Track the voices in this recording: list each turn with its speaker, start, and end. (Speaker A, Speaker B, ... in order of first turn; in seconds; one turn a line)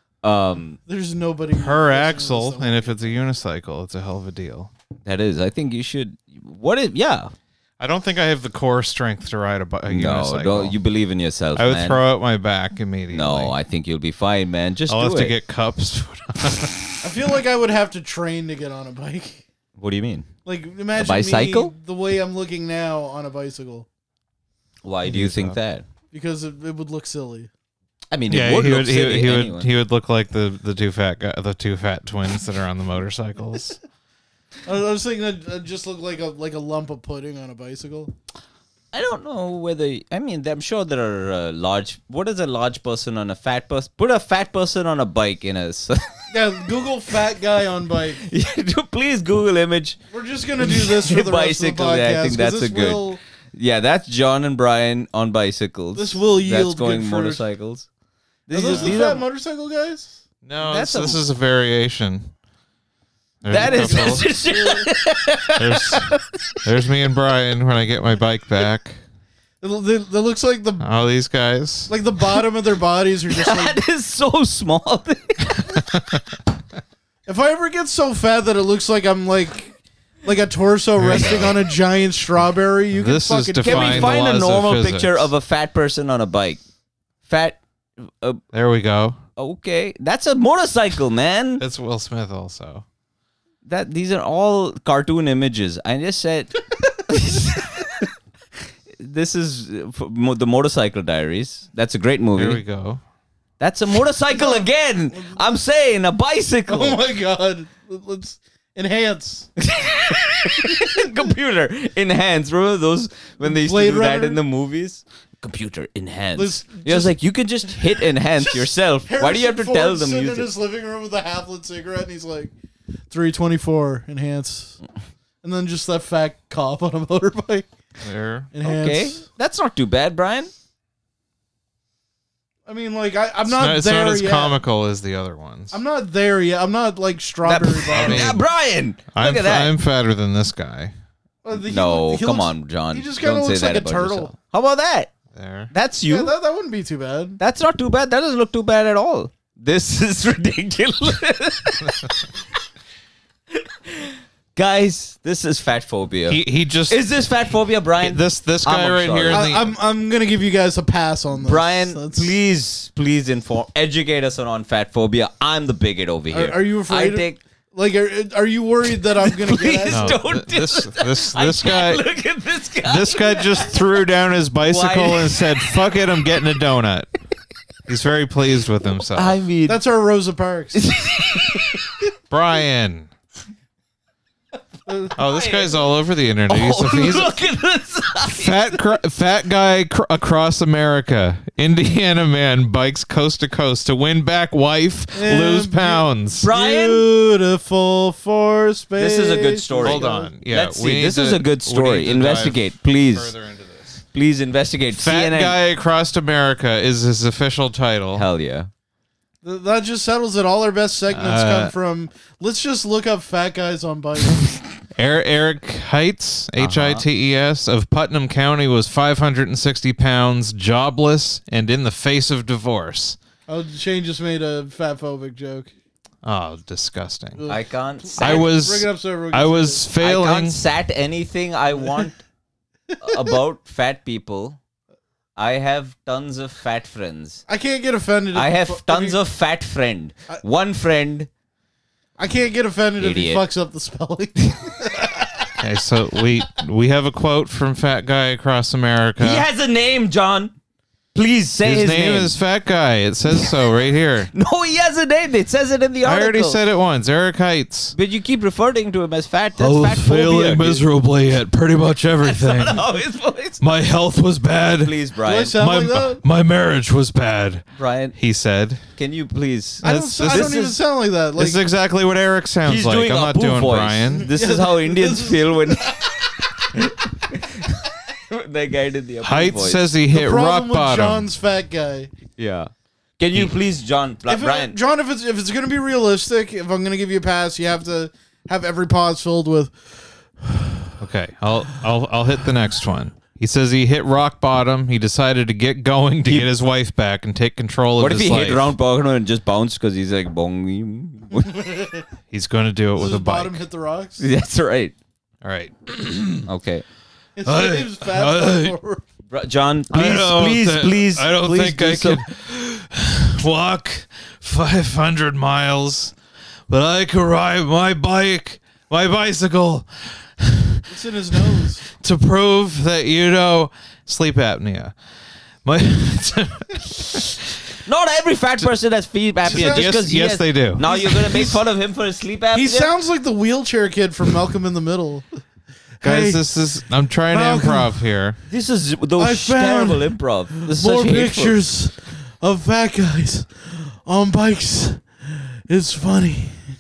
Speaker A: 0.2-0.8
Speaker B: 0.9-3.1
Speaker C: 1.5-4.7
Speaker A: 5.0-7.3
Speaker C: 7.8-10.8
Speaker A: 9.9-12.0
Speaker C: 11.6-13.5
Speaker A: 13.1-15.4
Speaker C: 14.9-17.0
Speaker B: 17.0-19.4
Speaker A: 19.8-20.3
Speaker B: 20.5-23.9
Speaker A: 21.0-21.7
Speaker A: 24.8-25.9
Speaker C: 25.1-25.6
Speaker B: 26.1-27.5
Speaker A: 28.1-29.7
Speaker C: 28.3-33.8
Speaker B: 34.6-38.1
Speaker A: 38.9-46.3
Speaker B: 46.3-48.2
Speaker A: 48.2-50.0
Speaker B: 50.1-53.2
Speaker A: 50.6-57.9
Speaker B: 56.0-57.4
Speaker A: 58.5-59.2
Speaker B: 58.5-60.2
Speaker C: 58.7-59.0
Speaker C: 60.5-62.3
Speaker A: 60.6-61.2
Speaker C: 63.4-64.3
Speaker A: 63.5-66.6
Speaker B: 63.5-64.9
Speaker C: 65.6-66.1
Speaker C: 66.6-69.0
Speaker B: 69.6-70.9
Speaker C: 70.8-71.9
Speaker B: 71.9-73.8
Speaker A: 73.3-75.8
Speaker C: 75.8-76.2
Speaker B: 77.3-84.2
Speaker C: 81.0-81.6
Speaker C: 82.9-85.3
Speaker A: 83.6-86.6
Speaker A: 87.3-88.4
Speaker C: 88.5-89.2
Speaker A: 89.4-91.6
Speaker C: 91.6-92.8
Speaker A: 93.7-97.9
Speaker A: 99.0-102.6
Speaker C: 102.3-103.0
Speaker A: 103.6-107.0
Speaker B: 104.3-105.3
Speaker B: 106.7-109.5
Speaker A: 109.6-120.5
Speaker B: 110.7-111.0
Speaker B: 113.4-114.4
Speaker B: 116.3-117.2
Speaker B: 118.0-122.5
Speaker B: 123.1-124.8
Speaker B: 125.4-127.7
Speaker C: 128.0-128.5
Speaker B: 128.5-129.2
Speaker A: 128.6-130.5
Speaker B: 132.7-134.6
Speaker C: 133.5-135.8
Speaker B: 135.7-138.4
Speaker A: 137.4-139.7
Speaker C: 137.9-138.4
Speaker C: 139.1-140.9
Speaker B: 141.4-144.3
Speaker A: 141.7-145.1
Speaker C: 145.3-145.7
Speaker A: 145.7-146.3
Speaker B: 146.1-147.4
Speaker A: 147.4-152.1
Speaker A: 153.5-159.5
Speaker C: 156.3-157.0
Speaker C: 158.0-159.7
Speaker B: 159.3-162.3
Speaker A: 161.4-167.4
Speaker B: 166.3-170.2
Speaker A: 169.2-173.8
Speaker C: 169.9-172.1
Speaker C: 172.8-177.1
Speaker A: 174.7-175.8
Speaker C: 177.9-179.4
Speaker A: 179.2-179.8
Speaker B: 179.7-181.6
Speaker A: 180.8-181.8
Speaker C: 182.3-183.1
Speaker B: 184.9-185.2
Speaker A: 185.2-185.7
Speaker C: 185.2-187.4
Speaker A: 186.5-188.7
Speaker C: 188.3-196.5
Speaker B: 195.2-200.3
Speaker A: 196.4-197.0
Speaker A: 199.0-203.3
Speaker C: 199.8-204.0
Speaker A: 204.1-205.6
Speaker C: 204.9-208.2
Speaker A: 208.2-208.7
Speaker B: 209.4-214.4
Speaker C: 211.1-211.7
Speaker C: 215.0-223.2
Speaker A: 216.6-217.0
Speaker B: 223.5-225.7
Speaker C: 226.2-227.4
Speaker B: 227.4-229.8
Speaker A: 227.5-228.5
Speaker C: 228.2-230.6
Speaker A: 230.0-232.2
Speaker B: 233.0-233.3
Speaker A: 233.0-234.6
Speaker A: 235.4-237.4
Speaker B: 237.5-239.2
Speaker A: 238.3-241.3
Speaker B: 242.2-245.5
Speaker A: 243.0-243.4
Speaker C: 245.6-249.5
Speaker A: 249.2-250.5
Speaker A: 251.2-252.3
Speaker C: 251.6-254.3
Speaker A: 254.3-256.6
Speaker C: 256.0-257.9
Speaker A: 257.9-260.8
Speaker C: 259.6-262.9
Speaker A: 262.2-263.6
Speaker C: 263.6-265.0
Speaker A: 264.8-265.6
Speaker B: 265.2-266.2
Speaker C: 265.5-268.8
Speaker A: 267.8-268.2
Speaker A: 269.0-270.8
Speaker C: 269.8-270.6
Speaker B: 269.8-271.6
Speaker C: 271.4-274.3
Speaker A: 272.6-279.9
Speaker B: 274.3-276.2
Speaker C: 279.2-281.3
Speaker B: 280.1-282.1
Speaker A: 282.4-284.8
Speaker B: 284.3-289.7
Speaker B: 290.4-290.9
Speaker C: 291.0-298.8
Speaker A: 298.0-301.7
Speaker B: 301.4-302.0
Speaker C: 302.3-303.6
Speaker B: 303.0-304.2
Speaker A: 304.2-304.9
Speaker C: 305.4-306.5
Speaker A: 306.5-306.9
Speaker B: 307.4-309.0
Speaker C: 307.4-308.8
Speaker A: 309.3-312.2
Speaker C: 309.9-316.1
Speaker C: 316.7-324.9
Speaker B: 320.9-321.9
Speaker C: 325.6-327.8
Speaker A: 327.9-332.9
Speaker B: 329.5-330.0
Speaker C: 329.5-330.9
Speaker B: 330.9-331.6
Speaker B: 332.5-335.2
Speaker B: 336.0-336.4
Speaker C: 336.0-338.4
Speaker B: 337.3-338.0
Speaker A: 338.5-341.6
Speaker B: 339.2-346.7